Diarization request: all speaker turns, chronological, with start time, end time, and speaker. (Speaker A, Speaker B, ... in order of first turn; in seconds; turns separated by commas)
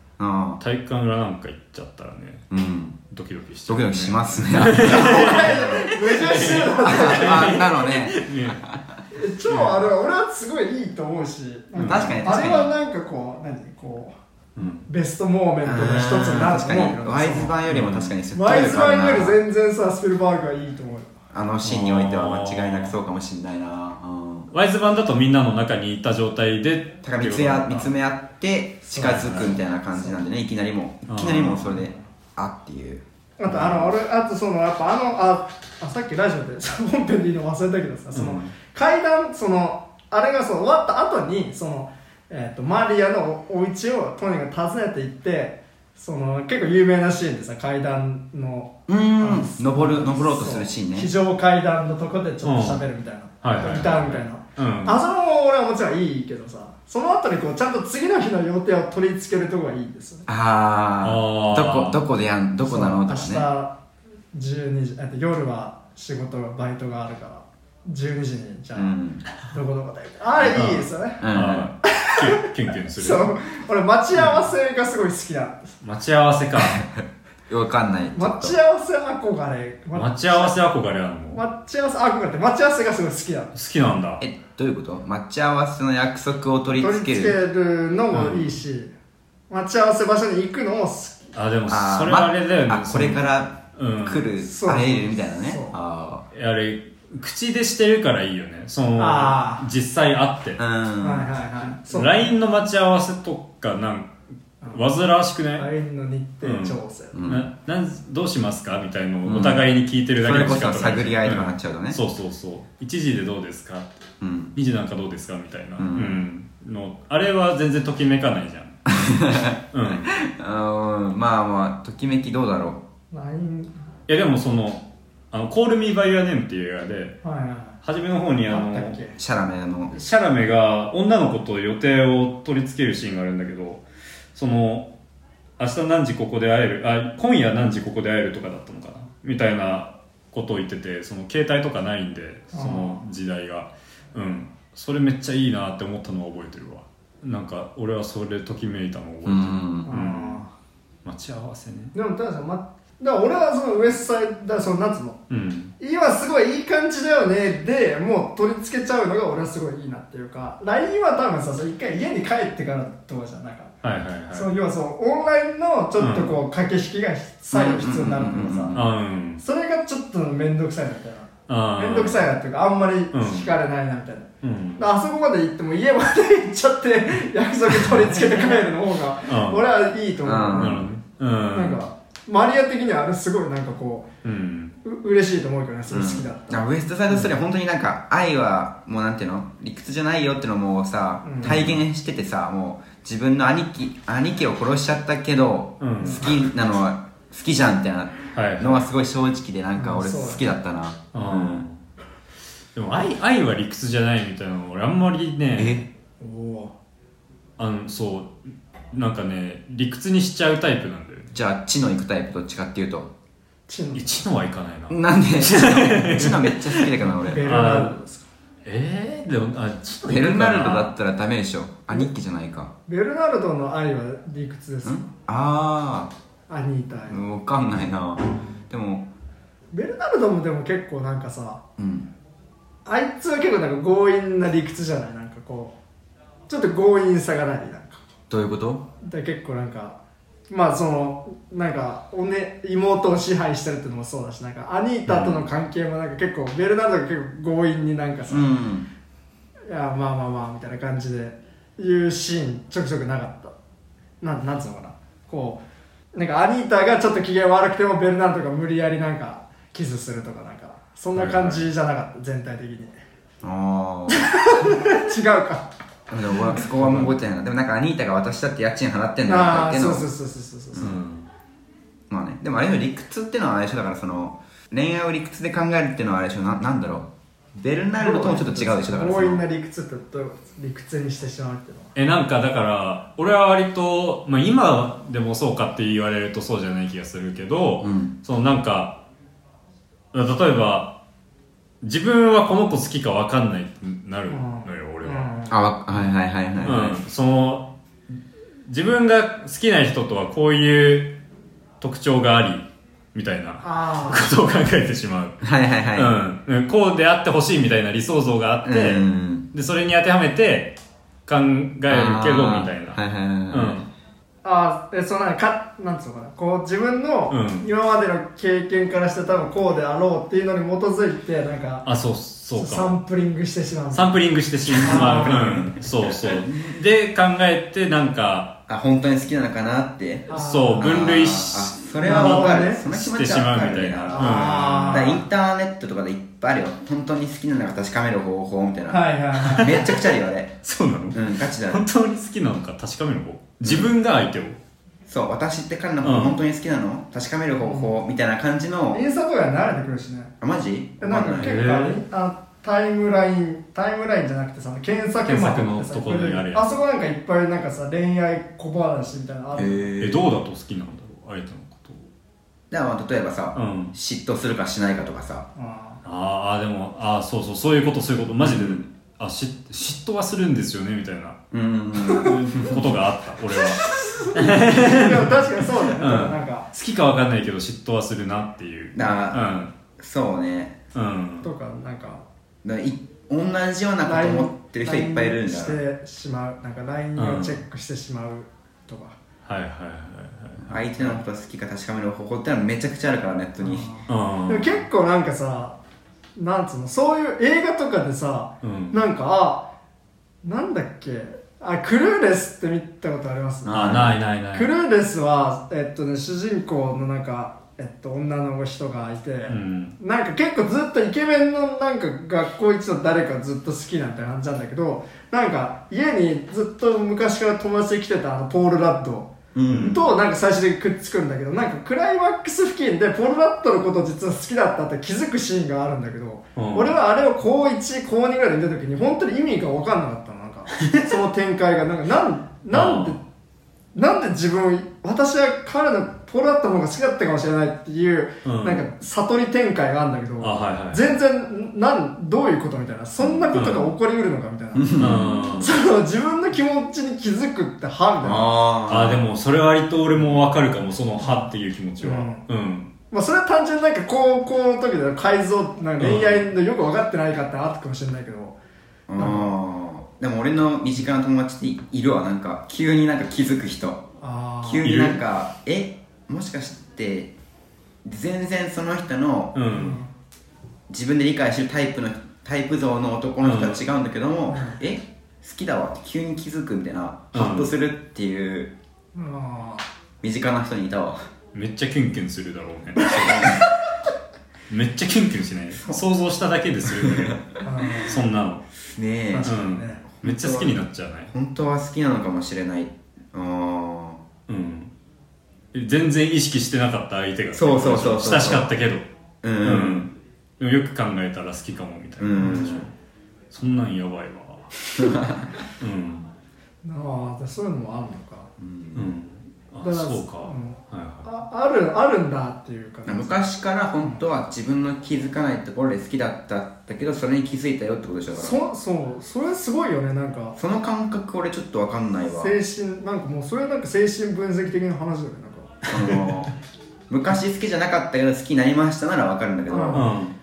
Speaker A: 0.2-0.6, Speaker B: 0.6-2.5, Speaker A: 2.5-3.0, Speaker B: 3.1-8.7, Speaker A: 3.7-8.8, Speaker C: 4.8-7.6, Speaker C: 9.1-14.1, Speaker B: 9.5-9.8, Speaker B: 11.8-12.4, Speaker A: 11.8-12.7, Speaker B: 14.6-14.9, Speaker C: 14.9-17.6, Speaker A: 15.7-19.4, Speaker B: 17.7-18.2, Speaker C: 18.3-21.2, Speaker A: 21.3-24.5, Speaker B: 21.6-22.9, Speaker B: 24.5-27.9, Speaker A: 27.0-34.0, Speaker C: 28.9-30.2, Speaker B: 29.0-29.6, Speaker B: 31.1-31.9, Speaker C: 33.4-60.3, Speaker B: 38.1-38.5, Speaker A: 48.9-51.1, Speaker B: 52.4-52.8, Speaker B: 53.4-55.0, Speaker A: 60.3-63.5, Speaker B: 61.0-62.0, Speaker C: 62.6-63.7, Speaker C: 64.3-71.2, Speaker A: 68.8-69.2, Speaker A: 70.4-70.6, Speaker B: 70.5-73.3, Speaker A: 71.2-71.7, Speaker C: 71.8-72.3, Speaker C: 73.0-75.7, Speaker B: 74.2-74.5, Speaker B: 75.8-76.8, Speaker A: 76.6-78.5, Speaker C: 78.1-80.6, Speaker B: 79.9-81.4, Speaker C: 81.3-83.5, Speaker B: 83.5-84.2, Speaker A: 84.2-87.4, Speaker C: 86.8-88.9, Speaker B: 88.1-88.5, Speaker C: 89.5-91.2, Speaker B: 91.3-94.3, Speaker A: 91.7-96.3, Speaker C: 94.4-95.8, Speaker B: 96.3-100.6, Speaker C: 99.0-99.7, Speaker A: 100.6-101.3, Speaker C: 101.0-102.3, Speaker B: 101.9-104.1, Speaker B: 104.7-105.7, Speaker C: 105.6-107.2, Speaker B: 106.4-113.9, Speaker A: 107.1-107.5, Speaker A: 109.2-109.7, Speaker A: 110.2-112.0, Speaker A: 114.2-114.5, Speaker B: 114.5-118.9, Speaker A: 115.8-116.2, Speaker A: 118.9-122.8, Speaker B: 119.7-120.1, Speaker C: 123.1-123.7, Speaker B: 124.1-127.2, Speaker C: 127.2-127.8, Speaker B: 127.8-129.0, Speaker C: 128.5-129.2, Speaker A: 129.2-130.0, Speaker B: 129.9-133.8, Speaker B: 134.3-134.9, Speaker B: 135.6-150.4, Speaker C: 142.5-143.0, Speaker A: 149.2-149.9, Speaker C: 149.9-150.5, Speaker B: 151.1-151.9, Speaker C: 151.9-155.2, Speaker B: 155.3-155.7, Speaker C: 155.8-163.8, Speaker B: 163.8-164.5, Speaker C: 164.3-168.8, Speaker B: 166.0-166.4, Speaker A: 167.5-168.9, Speaker B: 168.7-169.4, Speaker C: 169.4-180.9, Speaker B: 171.5-172.3, Speaker B: 173.1-173.5, Speaker B: 174.4-174.8, Speaker B: 177.7-178.7, Speaker B: 179.3-179.6, Speaker A: 180.2-180.9, Speaker B: 180.5-181.8, Speaker C: 181.5-184.1, Speaker B: 184.2-184.8, Speaker C: 184.8-186.6, Speaker A: 185.9-201.6, Speaker C: 191.2-191.6, Speaker B: 191.4-191.8, Speaker B: 195.8-196.3, Speaker B: 198.3-198.8, Speaker C: 199.8-200.5, Speaker B: 201.1-201.8, Speaker B: 202.8-205.8, Speaker A: 205.6-205.8, Speaker C: 206.2-206.7, Speaker B: 207.6-208.4, Speaker B: 208.9-211.3, Speaker A: 211.3-213.1, Speaker C: 213.7-214.1, Speaker B: 213.9-218.0, Speaker A: 214.9-217.5, Speaker C: 217.2-218.3, Speaker B: 218.7-220.9, Speaker A: 220.0-222.7, Speaker C: 222.9-225.1, Speaker A: 224.8-226.1, Speaker C: 226.5-227.2, Speaker A: 227.1-229.1, Speaker C: 229.7-231.6, Speaker A: 231.8-232.1, Speaker C: 232.8-235.8, Speaker C: 236.5-238.1, Speaker A: 238.3-238.8, Speaker C: 239.0-240.0, Speaker C: 240.5-248.6, Speaker B: 245.1-245.3, Speaker A: 248.3-248.9, Speaker C: 249.7-253.5, Speaker C: 254.2-255.6, Speaker C: 256.1-262.9, Speaker B: 261.1-261.7, Speaker A: 263.4-264.2, Speaker C: 264.1-265.7, Speaker A: 266.1-270.1, Speaker B: 266.6-267.2, Speaker C: 269.3-270.9, Speaker A: 270.7-271.0, Speaker B: 270.8-271.3, Speaker A: 272.1-279.4, Speaker C: 278.0-281.9, Speaker B: 282.0-289.0, Speaker A: 287.8-288.1, Speaker B: 290.1-291.0, Speaker B: 291.8-295.3, Speaker C: 294.3-295.6, Speaker A: 295.5-297.0, Speaker B: 296.6-297.7, Speaker B: 298.7-301.2, Speaker B: 301.8-305.4, Speaker C: 303.6-304.3, Speaker A: 305.4-306.2, Speaker B: 305.9-313.9, Speaker A: 308.6-309.5, Speaker A: 311.9-313.9, Speaker C: 314.4-321.9, Speaker B: 317.3-317.7, Speaker B: 321.9-323.0, Speaker C: 322.6-324.2, Speaker B: 323.9-328.6, Speaker A: 324.7-326.8, Speaker C: 324.8-325.5, Speaker A: 328.7-340.6, Speaker C: 330.3-331.0, Speaker B: 330.3-335.2, Speaker C: 332.0-332.8, Speaker C: 334.1-335.2, Speaker C: 338.9-339.9, Speaker B: 339.4-340.1, Speaker B: 340.6-344.6, Speaker A: 341.1-341.9, Speaker A: 343.6-343.9, Speaker A: 345.1-349.0, Speaker B: 346.0-346.4, Speaker C: 347.6-347.9, Speaker C: 348.9-350.3, Speaker A: 350.4-351.6, Speaker C: 351.0-359.9, Speaker B: 351.4-352.0, Speaker B: 355.3-356.7, Speaker A: 359.5-360.3, Speaker B: 360.0-362.1, Speaker A: 362.7-365.5, Speaker B: 363.6-363.9, Speaker C: 365.6-366.0, Speaker B: 366.1-371.4, Speaker A: 368.4-368.8, Speaker A: 371.5-372.9, Speaker C: 372.1-372.4, Speaker B: 372.2-379.7, Speaker C: 373.9-376.7, Speaker A: 378.9-379.4, Speaker A: 380.0-380.8, Speaker B: 380.9-381.5, Speaker C: 381.4-382.2, Speaker A: 382.6-385.8, Speaker C: 384.1-389.2, Speaker B: 387.2-387.6, Speaker B: 389.5-391.2, Speaker A: 390.6-393.9, Speaker C: 393.6-395.8, Speaker B: 394.1-394.9, Speaker C: 396.4-399.7, Speaker B: 398.6-399.0, Speaker C: 400.4-404.0, Speaker A: 403.6-404.2, Speaker B: 403.7-404.7, Speaker C: 404.5-433.2, Speaker B: 409.5-409.9, Speaker A: 419.6-420.0, Speaker B: 419.7-420.0, Speaker B: 426.6-427.0, Speaker B: 432.7-433.2, Speaker C: 433.9-445.0, Speaker B: 438.4-438.9, Speaker B: 440.4-441.2, Speaker A: 443.2-443.5, Speaker B: 443.5-443.9, Speaker A: 444.7-445.7, Speaker B: 445.0-445.7, Speaker C: 445.6-448.5, Speaker A: 448.2-449.2, Speaker B: 448.9-452.9, Speaker C: 451.2-452.4, Speaker C: 453.1-458.6, Speaker B: 456.0-456.5, Speaker A: 459.1-464.0, Speaker C: 459.2-459.6, Speaker C: 464.2-464.9, Speaker A: 464.6-467.3, Speaker B: 464.8-465.2, Speaker A: 468.0-469.6, Speaker B: 469.6-470.0, Speaker C: 469.7-470.1, Speaker A: 470.9-478.7, Speaker B: 473.4-473.8, Speaker C: 474.5-474.8, Speaker B: 477.3-477.7, Speaker C: 479.1-479.9, Speaker A: 480.2-481.2, Speaker B: 481.5-483.6, Speaker B: 484.7-488.6, Speaker A: 486.9-487.4, Speaker C: 487.6-488.2, Speaker A: 488.8-489.5, Speaker C: 489.3-490.0, Speaker B: 489.5-491.3, Speaker A: 490.1-494.2, Speaker B: 494.5-494.9, Speaker B: 495.7-499.1, Speaker A: 497.5-498.7, Speaker A: 499.4-500.1, Speaker B: 499.6-502.9, Speaker A: 502.2-502.9, Speaker C: 502.4-502.7, Speaker B: 503.5-504.9, Speaker A: 505.0-505.5, Speaker B: 505.8-506.3, Speaker C: 506.8-508.5, Speaker A: 508.6-509.1, Speaker B: 508.9-511.3, Speaker C: 509.8-513.4, Speaker A: 513.1-518.6, Speaker C: 518.3-520.6, Speaker A: 520.6-522.5, Speaker C: 522.4-525.9, Speaker A: 525.9-526.5, Speaker A: 527.1-530.1, Speaker C: 529.7-530.1, Speaker B: 529.9-530.4